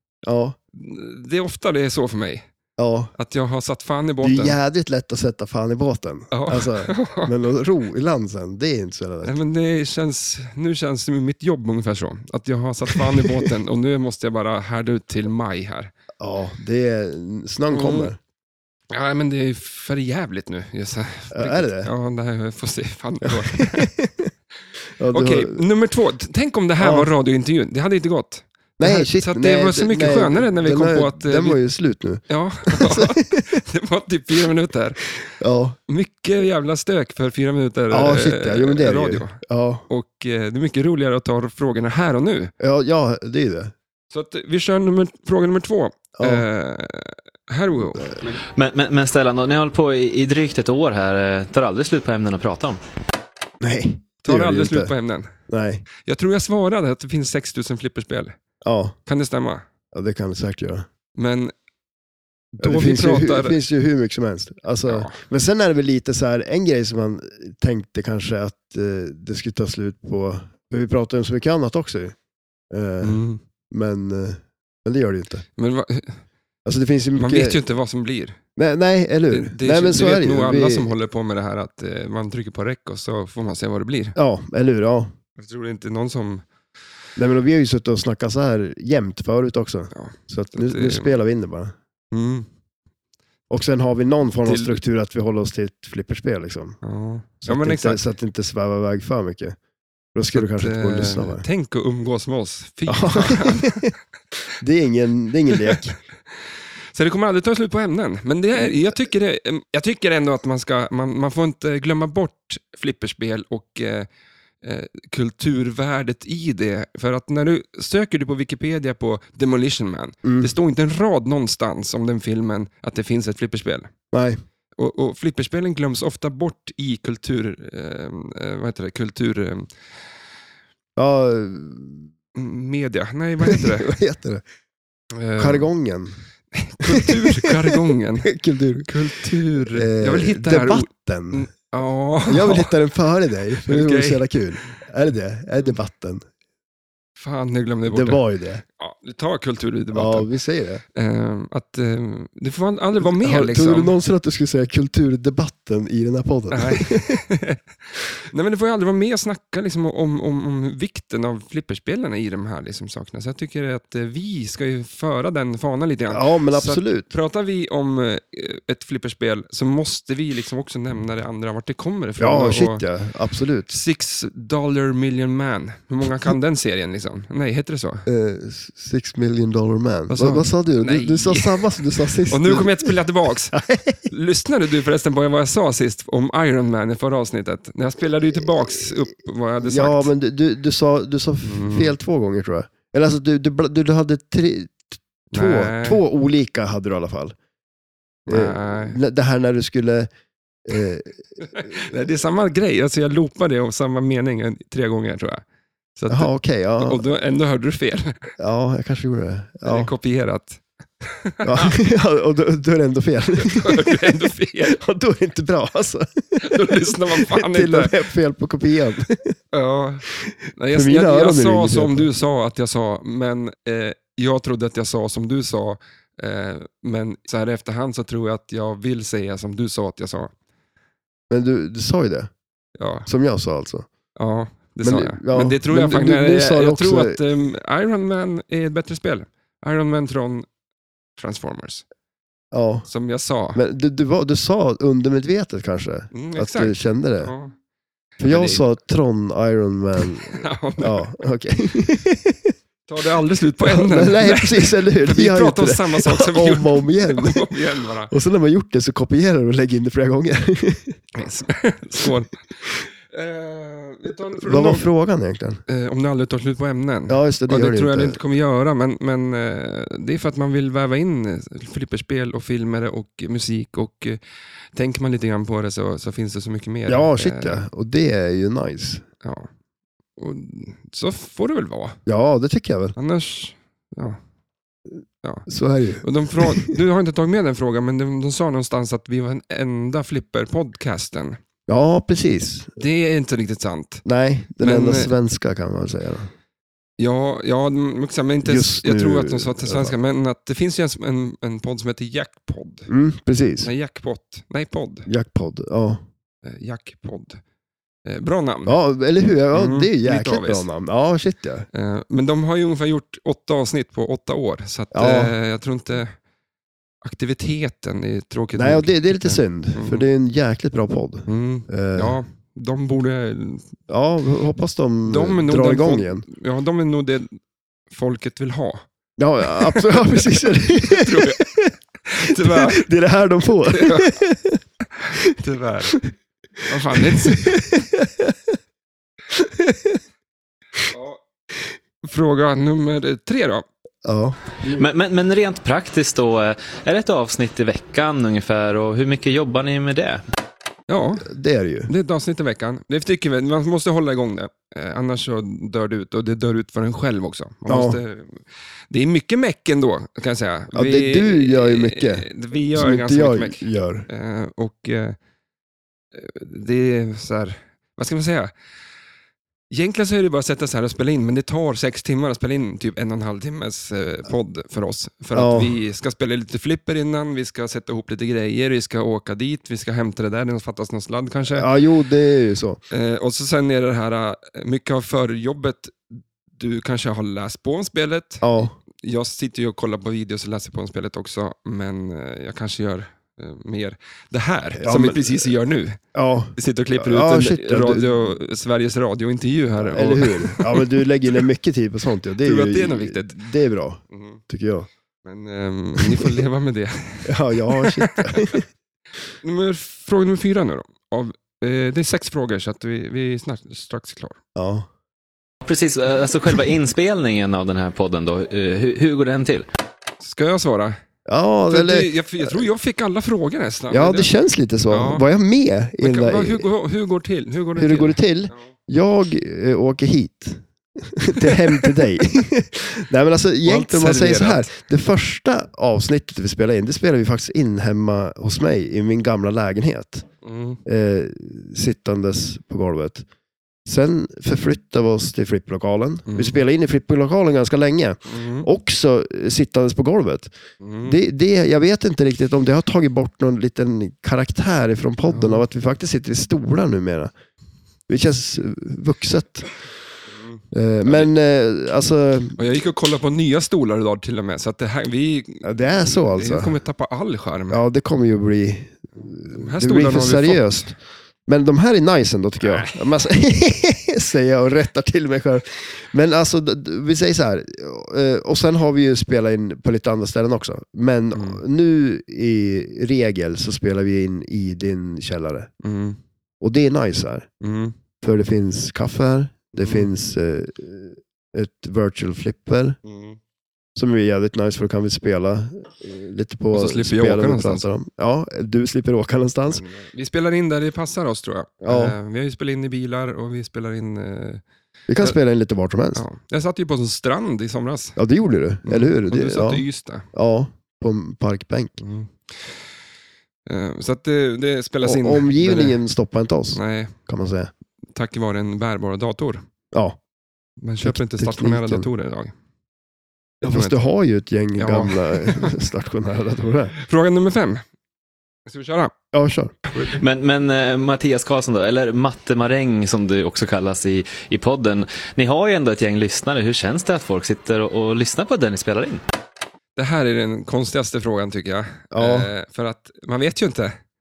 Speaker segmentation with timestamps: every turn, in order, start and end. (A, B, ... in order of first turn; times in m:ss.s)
0:00.2-0:00.6 A
0:00.7-0:02.5 B
0:02.8-0:03.1 A
0:03.2-0:04.6 B
0:04.2-0:09.3 A
0:06.3-0:07.3 B
0:09.2-0:15.9 B
0:12.9-0:13.5 A
0:16.2-0:18.2 A
0:17.7-0:18.1 B
0:18.9-0:23.9 B
0:21.3-0:21.9 A
0:23.2-0:24.3 A
0:25.0-0:25.6 A
0:25.1-0:31.6 B
0:26.8-0:27.1 A
0:28.8-0:33.6 A
0:32.3-0:35.0 B
0:35.4-0:35.8 A
0:35.9-0:42.5 B
0:37.9-0:39.8 A
0:42.6-0:43.7 A
0:44.1-0:48.2 B
0:46.2-0:46.4 A
0:47.8-0:48.2 A
0:48.6-0:52.8 C
0:53.6-0:54.9 A
0:54.2-0:55.3 B
0:55.5-0:55.8 A
0:56.0-0:58.4 B
0:58.6-0:59.0 A
0:59.0-0:59.6 B
0:59.9-1:00.9 A
1:01.2-1:01.5 B
1:02.6-1:03.6 B
1:02.6-1:12.2 A
1:04.8-1:05.2 B
1:12.7-1:15.4 A
1:13.0-1:13.4 B
1:15.6-1:16.2 B
1:16.6-1:17.6 A
1:17.2-1:18.4 B
1:18.6-1:20.9 A
1:19.3-1:24.2 B
1:24.2-1:25.1 A
1:25.4-1:26.4 B
1:27.2-1:31.7 A
1:29.9-1:31.1 B
1:32.1-1:32.5 B
1:33.5-1:36.8 A
1:34.4-1:34.8 B
1:36.8-1:38.1 B
1:37.4-1:39.6 A
1:40.1-1:41.4 A
1:40.3-1:43.9 B
1:42.9-1:43.9 A
1:44.6-1:46.0 A
1:45.5-1:45.8 B
1:46.9-1:54.1 B
1:54.6-2:03.9 B
2:00.2-2:00.5 A
2:04.1-2:04.4 A
2:04.8-2:09.7 B
2:11.0-2:12.1 A
2:12.3-2:13.9 B
2:13.4-2:14.4 A
2:15.1-2:15.7 B
2:15.4-2:16.2 A
2:16.5-2:18.3 B
2:16.8-2:18.9 A
2:18.8-2:22.7 B
2:19.7-2:21.5 A
2:22.3-2:26.2 A
2:23.6-2:24.7 B
2:27.2-2:28.2 B
2:27.9-2:28.6 A
2:28.8-2:30.3 B
2:29.9-2:30.8 A
2:30.9-2:34.0 B
2:33.0-2:37.2 A
2:36.5-2:37.6 B
2:38.2-2:52.8 B
2:46.1-2:47.1 A
2:52.2-2:53.7 A
2:53.7-2:58.0 B
2:58.0-3:02.9 A
3:00.1-3:01.8 B
3:02.3-3:10.1 B
3:03.5-3:04.0 A
3:08.4-3:08.9 A
3:09.6-3:17.4 A
3:11.4-3:11.9 B
3:15.3-3:16.0 B
3:18.3-3:19.0 B
3:18.3-3:20.1 A
3:20.6-3:22.0 A
3:21.4-3:25.4 B
3:26.0-3:28.3 B
3:26.1-3:27.0 A
3:28.4-3:29.9 A
3:29.6-3:31.8 B
3:31.4-3:39.3 A
3:33.4-3:34.8 B
3:36.4-3:38.0 B
3:39.5-3:50.3 B
3:40.2-3:42.1 A
3:51.3-3:52.3 A
3:52.8-3:53.1 B
3:53.0-3:53.9 A
3:54.2-4:00.4 B
3:54.8-3:57.2 A
4:01.2-4:01.8 B
4:02.5-4:02.9 A
4:02.9-4:03.6 B
4:03.5-4:07.3 A
4:06.1-4:07.5 B
4:08.2-4:12.5 A
4:08.2-4:08.6 B
4:10.3-4:11.1 B
4:12.9-4:18.1 B
4:13.6-4:17.5 A
4:18.1-4:21.0 A
4:21.1-4:22.4 B
4:23.1-4:24.9 B
4:24.4-4:25.6 A
4:25.7-4:34.2 B
4:27.1-4:28.2 A
4:34.7-4:37.6 B
4:36.9-4:39.0 A
4:39.2-4:39.5 B
4:40.2-4:42.0 B
4:42.0-4:43.0 A
4:43.0-4:44.2 B
4:45.5-4:46.7 A
4:46.0-4:51.4 B
4:51.7-4:52.7 A
4:52.8-4:54.0 B
4:54.0-4:56.3 A
4:54.6-4:55.1 B
4:57.0-5:02.9 B
4:58.4-5:00.0 A
5:02.9-5:03.7 A
5:03.6-5:05.1 B
5:05.0-5:06.0 A
5:06.4-5:07.4 B
5:08.0-5:08.8 B
5:08.6-5:11.7 A
5:09.5-5:10.6 B
5:11.7-5:16.2 B
5:14.9-5:15.3 A
5:17.0-5:20.0 B
5:18.6-5:22.2 A
5:21.3-5:23.7 B
5:23.9-5:26.2 A
5:25.0-5:27.4 B
5:27.9-5:28.8 B
5:29.2-5:34.6 A
5:29.4-5:31.5 B
5:32.0-5:32.8 B
5:33.7-5:34.2 B
5:35.0-5:36.0 B
5:36.6-5:37.7 B
5:36.9-5:38.5 A
5:39.3-5:40.0 A
5:40.9-5:41.2 B
5:42.0-5:43.6 B
5:44.0-5:44.8 A
5:44.7-5:50.2 C
5:50.9-5:51.3 B
5:51.2-5:51.9 A
5:51.9-6:05.2 B
5:57.7-5:58.0 A
6:00.7-6:04.1 A
6:06.1-6:08.5 B
6:09.7-6:21.7 B
6:15.3-6:15.8 A
6:21.5-6:22.8 A
6:22.9-6:36.0 B
6:28.4-6:28.7 A
6:34.8-6:35.5 A
6:36.1-6:38.3 A
6:36.6-6:40.9 B
6:39.8-6:44.9 A
6:42.4-6:43.4 B
6:44.1-6:44.4 B
6:45.2-6:48.6 B
6:46.0-6:46.3 A
6:47.2-6:48.6 A
6:49.4-6:54.4 B
6:54.5-6:54.9 A
6:55.6-6:59.6 C
7:00.2-7:01.0 B
7:01.2-7:02.6 A
7:01.7-7:04.3 B
7:03.9-7:06.7 A
7:04.9-7:05.2 B
7:06.0-7:08.6 B
7:07.8-7:20.2 A
7:11.3-7:12.0 B
7:13.6-7:14.7 B
7:20.4-7:20.8 B
7:20.8-7:23.2 A
7:23.8-7:30.5 A
7:26.3-7:26.6 B
7:28.3-7:28.7 B
7:30.8-7:31.2 B
7:31.0-7:37.3 A
7:35.3-7:35.6 B
7:38.1-7:39.7 A
7:40.3-7:41.3 B
7:40.7-7:42.6 A
7:42.6-7:47.8 B
7:45.6-7:46.8 A
7:47.7-8:05.7 A
7:49.5-7:50.9 B
7:52.6-7:53.0 B
8:01.3-8:01.6 B
8:05.8-8:06.2 B
8:06.6-8:07.5 A
8:07.6-8:08.0 B
8:08.2-8:13.0 A
8:09.8-8:10.1 B
8:13.0-8:13.4 B
8:14.0-8:19.8 A
8:16.7-8:17.8 B
8:19.7-8:24.6 B
8:21.8-8:22.2 A
8:25.1-8:26.2 A
8:26.1-8:28.2 B
8:28.2-8:32.0 A
8:28.8-8:30.3 B
8:32.0-8:32.8 B
8:33.7-8:36.0 B
8:35.0-8:37.7 A
8:36.7-8:37.1 B
8:38.1-8:39.6 B
8:39.9-8:40.2 A
8:40.8-8:42.5 B
8:41.0-8:42.1 A
8:43.6-8:46.9 A
8:43.6-8:44.0 B
8:44.8-8:45.8 B
8:47.0-8:47.8 B
8:48.7-8:49.1 B
8:49.3-8:49.7 A
8:50.0-8:59.2 C
9:00.0-9:04.0 B
9:02.1-9:02.5 A